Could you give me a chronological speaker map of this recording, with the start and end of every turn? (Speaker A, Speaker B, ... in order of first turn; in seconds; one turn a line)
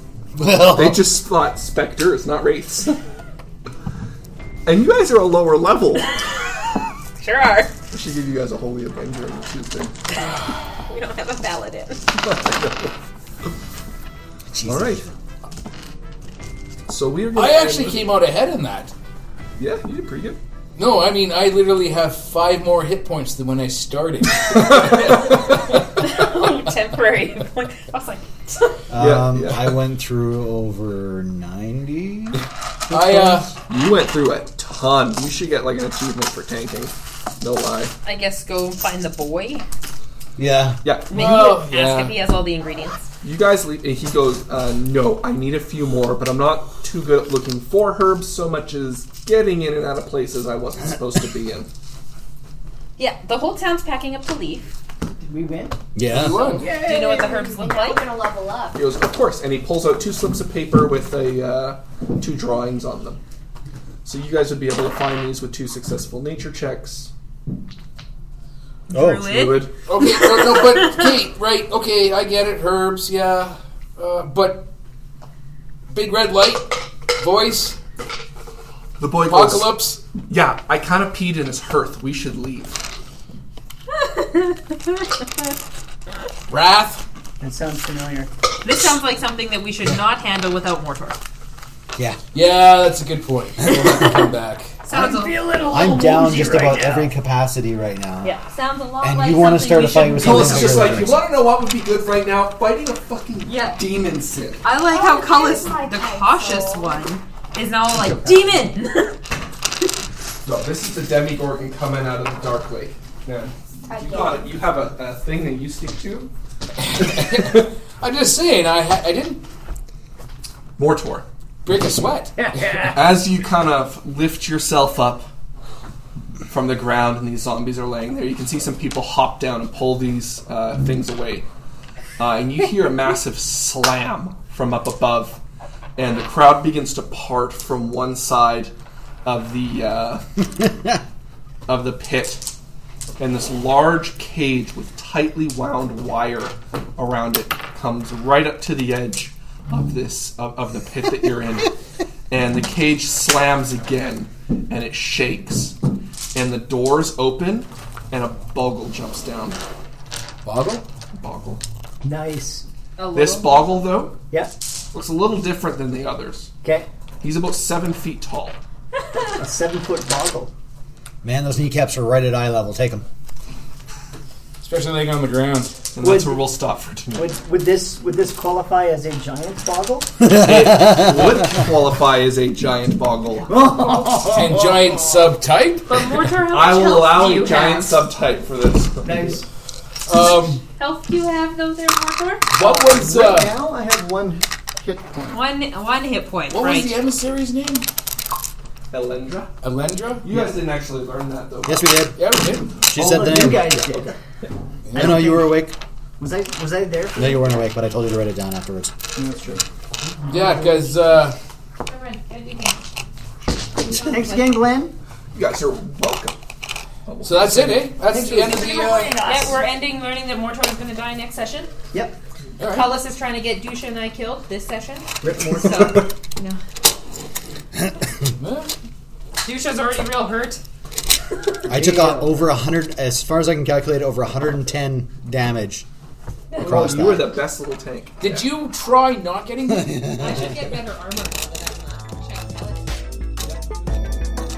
Speaker A: 0.3-1.1
Speaker B: 0.7-3.0
Speaker B: 4.6-6.2
Speaker C: 7.2-7.7
Speaker B: 7.9-9.9
Speaker C: 10.8-12.1
Speaker B: 12.1-12.9
Speaker A: 14.5-15.1
Speaker B: 14.7-15.0
Speaker B: 16.9-18.1
Speaker D: 17.3-18.9
Speaker B: 19.6-20.4
Speaker D: 20.8-25.3
Speaker C: 25.8-28.8
Speaker A: 28.9-32.4
Speaker B: 28.9-29.8
Speaker D: 32.9-33.5
Speaker B: 32.9-38.0
Speaker C: 38.0-39.6
Speaker A: 40.4-40.8
Speaker B: 40.8-41.7
Speaker C: 41.1-43.1
Speaker D: 41.1-42.1
Speaker B: 43.2-51.7
Speaker C: 53.0-54.7
Speaker E: 55.1-55.8
Speaker A: 55.9-56.6
Speaker D: 56.1-56.7
Speaker F: 56.5-58.8
Speaker E: 56.6-57.3
Speaker C: 56.6-58.1
Speaker B: 58.7-63.2
Speaker B: 64.0-67.1
Speaker A: 68.9-69.5
Speaker C: 68.9-71.1
Speaker B: 69.3-69.7
Speaker D: 69.8-74.7
Speaker D: 75.9-77.8
Speaker B: 79.0-82.8
Speaker D: 79.3-80.0
Speaker C: 83.9-85.4
Speaker D: 86.5-87.0
Speaker E: 87.4-88.3
Speaker C: 88.6-91.2
Speaker D: 92.3-94.8
Speaker C: 93.7-94.1
Speaker C: 94.8-95.4
Speaker E: 94.9-97.1
Speaker A: 95.7-98.3
Speaker C: 98.2-100.9
Speaker F: 98.5-99.8
Speaker A: 99.0-101.2
Speaker B: 100.2-104.6
Speaker C: 103.4-103.8
Speaker C: 104.6-109.2
Speaker F: 104.8-107.1
Speaker B: 110.4-116.3
Speaker F: 113.8-114.5
Speaker D: 116.8-119.4
Speaker B: 117.3-117.6
Speaker B: 120.8-121.2
Speaker D: 121.6-122.9
Speaker E: 122.4-123.0
Speaker B: 122.9-125.3
Speaker B: 126.5-131.5
Speaker B: 132.2-135.4
Speaker B: 135.9-138.7
Speaker B: 139.2-140.3
Speaker A: 140.6-141.0
Speaker B: 141.7-142.5
Speaker B: 143.2-151.8
Speaker B: 152.3-155.8
Speaker B: 156.3-159.6
Speaker D: 160.4-160.9
Speaker B: 161.1-161.6
Speaker E: 162.0-162.7
Speaker C: 163.0-163.8
Speaker B: 163.1-164.2
Speaker B: 164.9-166.5
Speaker E: 166.6-166.9
Speaker B: 167.2-168.6
Speaker E: 169.3-170.5
Speaker A: 171.2-173.1
Speaker D: 174.6-175.8
Speaker B: 175.9-177.3
Speaker E: 176.0-176.4
Speaker E: 177.1-180.1
Speaker A: 180.2-181.4
Speaker B: 180.3-183.6
Speaker E: 183.4-185.3
Speaker D: 184.3-186.0
Speaker C: 185.8-188.1
Speaker B: 186.4-189.4
Speaker E: 189.0-189.4
Speaker D: 190.1-190.6
Speaker C: 190.8-192.6
Speaker D: 192.5-193.6
Speaker E: 192.6-195.3
Speaker C: 195.3-196.9
Speaker D: 196.5-197.9
Speaker B: 198.9-199.5
Speaker D: 199.6-200.2
Speaker B: 200.2-202.0
Speaker E: 200.3-200.5
Speaker A: 201.6-202.2
Speaker D: 202.2-202.8
Speaker E: 202.8-204.2
Speaker A: 202.9-203.8
Speaker B: 203.9-204.5
Speaker D: 204.9-205.2
Speaker E: 204.9-207.6
Speaker A: 204.9-205.8
Speaker A: 207.2-208.9
Speaker E: 209.2-211.0
Speaker D: 210.3-211.4
Speaker C: 211.8-212.8
Speaker E: 213.8-214.9
Speaker C: 213.8-214.6
Speaker B: 215.3-216.4
Speaker B: 217.1-217.9
Speaker D: 217.2-219.3
Speaker E: 218.0-219.6
Speaker F: 218.6-219.4
Speaker C: 219.2-221.7
Speaker D: 222.6-223.0
Speaker C: 222.7-226.6
Speaker E: 225.2-226.1
Speaker D: 228.4-228.7
Speaker C: 229.4-230.6
Speaker A: 231.7-235.8
Speaker E: 231.7-232.5
Speaker B: 236.6-238.4
Speaker A: 236.6-237.4
Speaker D: 238.2-240.5
Speaker A: 239.7-240.7
Speaker C: 240.1-243.0
Speaker B: 243.4-244.1